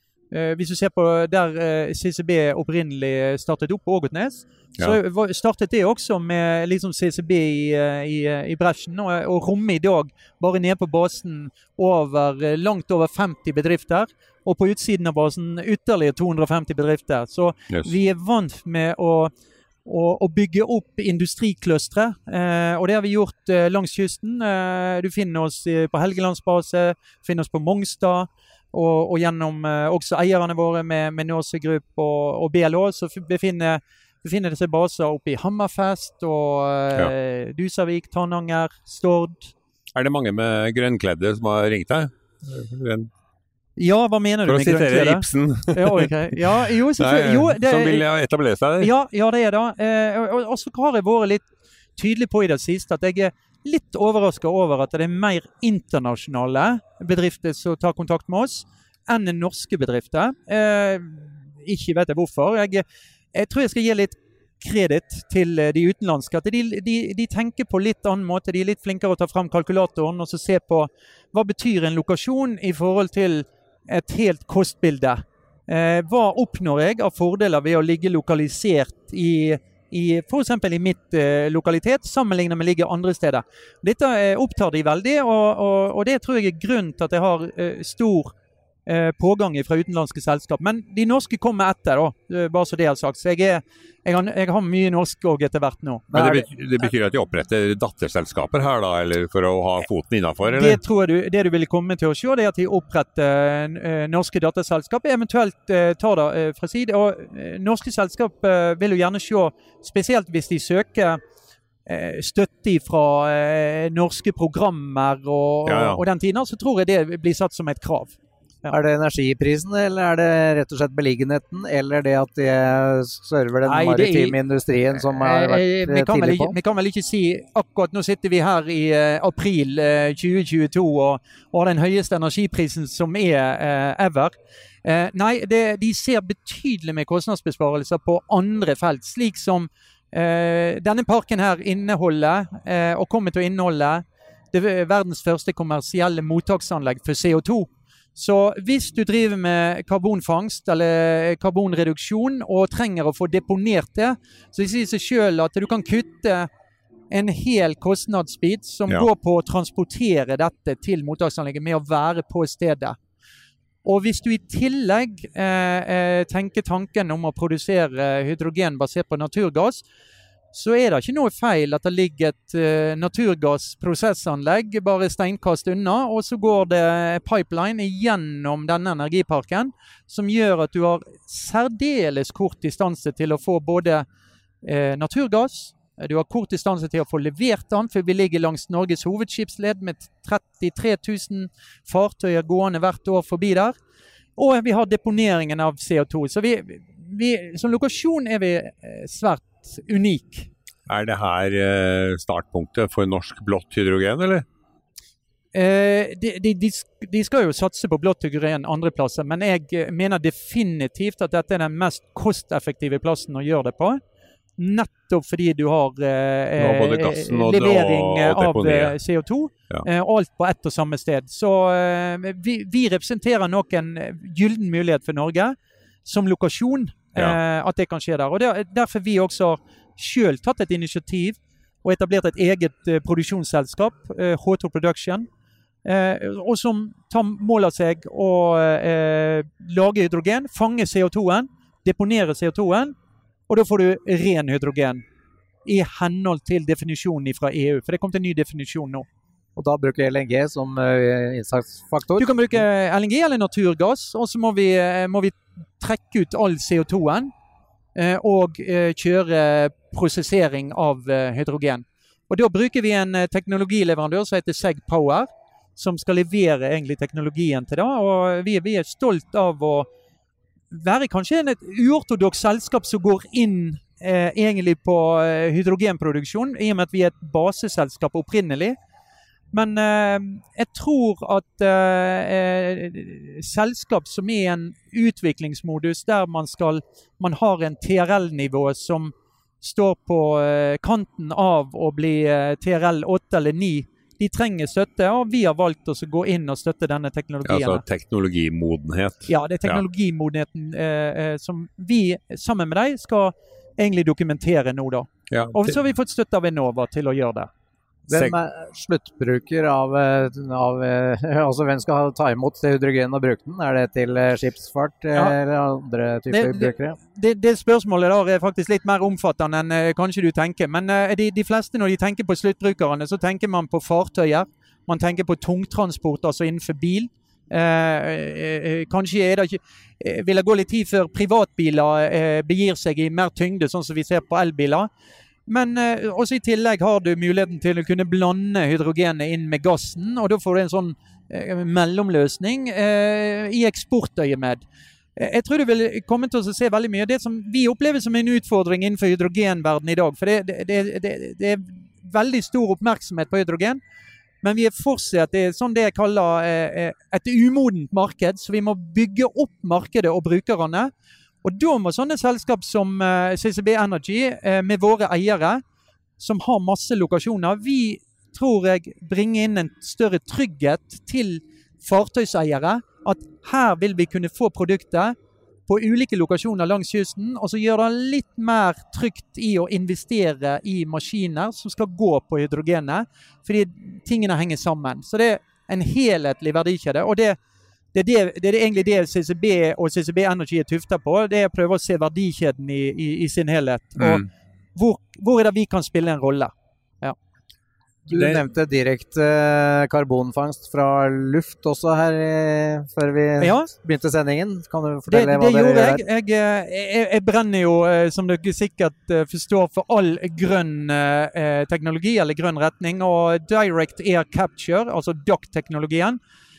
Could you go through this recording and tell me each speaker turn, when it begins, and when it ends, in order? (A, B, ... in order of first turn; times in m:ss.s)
0:00.3-0:19.3 A
0:19.8-0:39.5 A
0:39.9-0:43.1 B
0:43.8-0:48.0 A
0:44.4-0:46.1 B
0:47.0-0:48.9 B
0:48.8-1:28.3 A
1:28.8-1:36.1 A
1:36.1-1:40.8 B
1:36.1-1:36.4 C
1:40.4-1:51.2 A
1:51.8-1:58.7 A
1:55.6-1:56.0 B
1:58.7-2:06.6 C
2:03.6-2:04.4 A
2:05.0-2:36.5 A
2:37.1-2:43.0 A
2:43.8-2:49.8 A
2:50.5-3:04.0 A
3:04.6-3:13.7 A
3:14.4-3:20.5 A
3:20.9-3:24.4 B
3:25.5-3:34.0 A
3:34.6-3:55.3 A
3:36.6-3:39.0 B
3:55.8-4:02.9 A
4:03.5-4:05.0 A
4:05.6-4:09.0 A
4:09.6-4:12.4 C
4:12.2-4:17.3 A
4:17.9-4:29.9 A
4:30.7-4:38.8 A
4:39.5-4:57.8 A
4:57.4-4:59.8 B
4:59.3-5:07.5 A
5:05.3-5:05.7 B
5:08.1-5:17.0 C
5:08.1-5:08.4 B
5:16.3-5:34.9 A
5:35.4-5:44.6 A
5:45.2-5:53.8 A
5:54.4-6:00.9 A
6:01.4-6:05.6 A
6:06.2-6:15.1 A
6:15.7-6:27.4 A
6:27.9-6:34.2 A
6:34.0-6:34.3 B
6:34.7-6:37.2 A
6:38.1-6:46.0 C
6:38.1-6:38.4 B
6:43.4-6:43.7 A
6:45.1-6:56.2 A